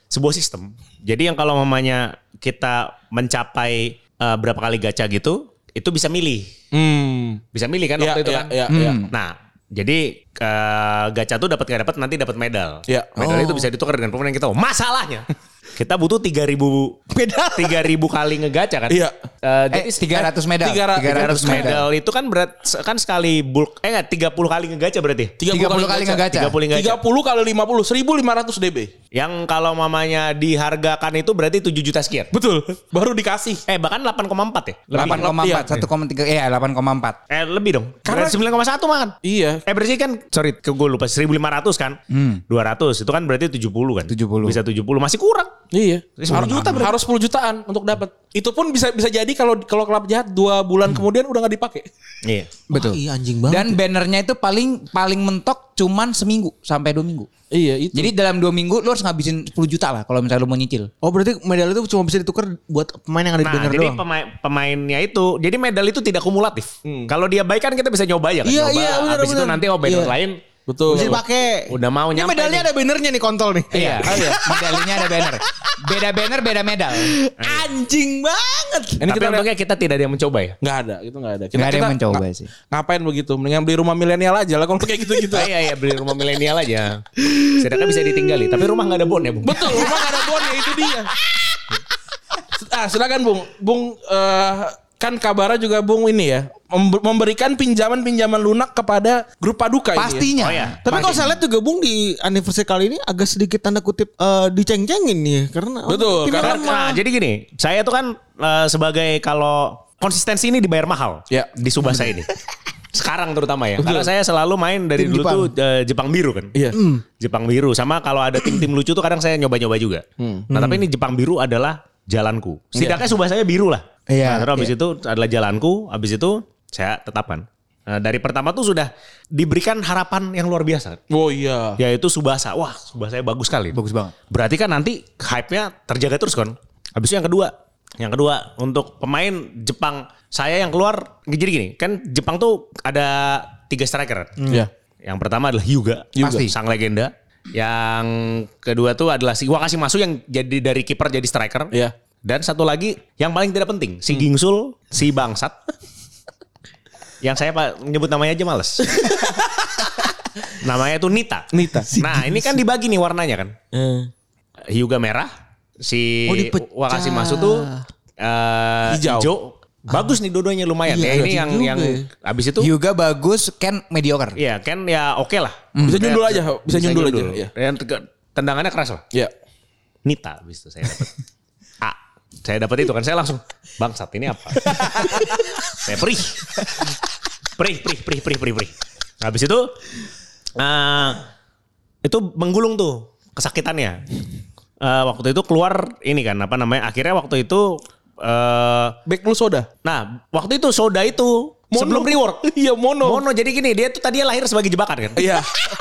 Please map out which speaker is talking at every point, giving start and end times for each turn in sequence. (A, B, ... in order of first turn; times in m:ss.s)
0:00.1-0:06.5 A
0:06.7-0:07.4 B
0:07.5-0:08.5 A
0:08.0-0:09.0 B
0:08.7-0:09.1 C
0:09.1-0:17.0 A
0:12.9-0:13.2 B
0:13.2-0:13.7 D
0:17.1-0:17.8 D
0:17.5-0:20.2 A
0:18.9-0:19.1 B
0:19.7-0:21.9 C
0:20.6-0:21.7 B
0:21.0-0:25.4 A
0:25.4-0:28.9 B
0:25.5-0:26.6 C
0:26.3-0:27.0 A
0:29.1-0:32.3 A
0:32.3-0:33.6 B
0:33.7-0:35.3 A
0:34.9-0:37.2 C
0:34.9-0:35.8 B
0:37.3-0:42.0 A
0:38.0-0:38.4 B
0:39.2-0:39.6 B
0:42.1-0:42.4 C
0:42.5-0:45.5 A
0:44.1-0:44.6 C
0:45.7-0:51.9 B
0:46.2-0:46.9 A
0:52.2-0:52.5 A
0:52.7-0:57.3 C
0:52.7-0:53.8 D
0:57.5-0:58.1 B
0:57.9-1:00.9 C
1:01.0-1:04.0 D
1:03.4-1:10.4 A
1:06.8-1:07.1 B
1:08.4-1:10.1 D
1:10.7-1:11.2 B
1:10.9-1:15.7 D
1:10.9-1:12.7 A
1:13.7-1:17.2 C
1:16.9-1:19.0 D
1:17.4-1:17.7 A
1:19.0-1:19.5 B
1:19.0-1:20.6 A
1:20.6-1:25.5 B
1:21.5-1:22.5 C
1:25.3-1:29.9 A
1:29.4-1:31.1 B
1:32.6-1:40.3 B
1:39.9-1:41.3 C
1:40.4-1:40.8 A
1:40.8-1:47.0 D
1:45.9-1:46.6 B
1:46.3-1:52.3 A
1:52.9-1:56.5 A
1:53.8-1:54.1 B
1:55.0-1:55.5 D
1:56.7-1:57.0 D
1:57.2-2:11.0 A
2:00.2-2:00.7 B
2:02.8-2:03.0 B
2:04.1-2:04.7 D
2:11.1-2:11.8 B
2:11.8-2:13.8 A
2:13.7-2:14.1 C
2:14.3-2:24.4 A
2:25.0-2:31.7 A
2:26.2-2:26.4 B
2:26.2-2:26.5 C
2:32.2-2:35.6 A
2:37.2-2:38.9 A
2:39.0-2:39.5 D
2:40.6-2:43.5 A
2:41.5-2:41.9 B
2:41.9-2:42.6 D
2:43.7-2:44.1 D
2:44.7-2:45.3 A
2:45.8-2:47.7 A
2:46.3-2:47.8 D
2:48.2-2:52.7 A
2:48.9-2:49.3 B
2:50.8-2:52.1 D
2:52.6-2:54.4 C
2:54.4-2:59.0 A
2:55.7-2:56.1 C
2:55.8-2:57.5 B
3:00.0-3:01.1 A
3:01.8-3:05.2 A
3:05.7-3:06.7 A
3:07.6-3:09.7 A
3:10.6-3:11.2 A
3:12.0-3:14.0 A
3:14.8-3:19.0 A
3:19.0-3:19.7 B
3:19.8-3:22.4 A
3:21.7-3:23.2 B
3:23.0-3:25.3 A
3:25.2-3:25.5 B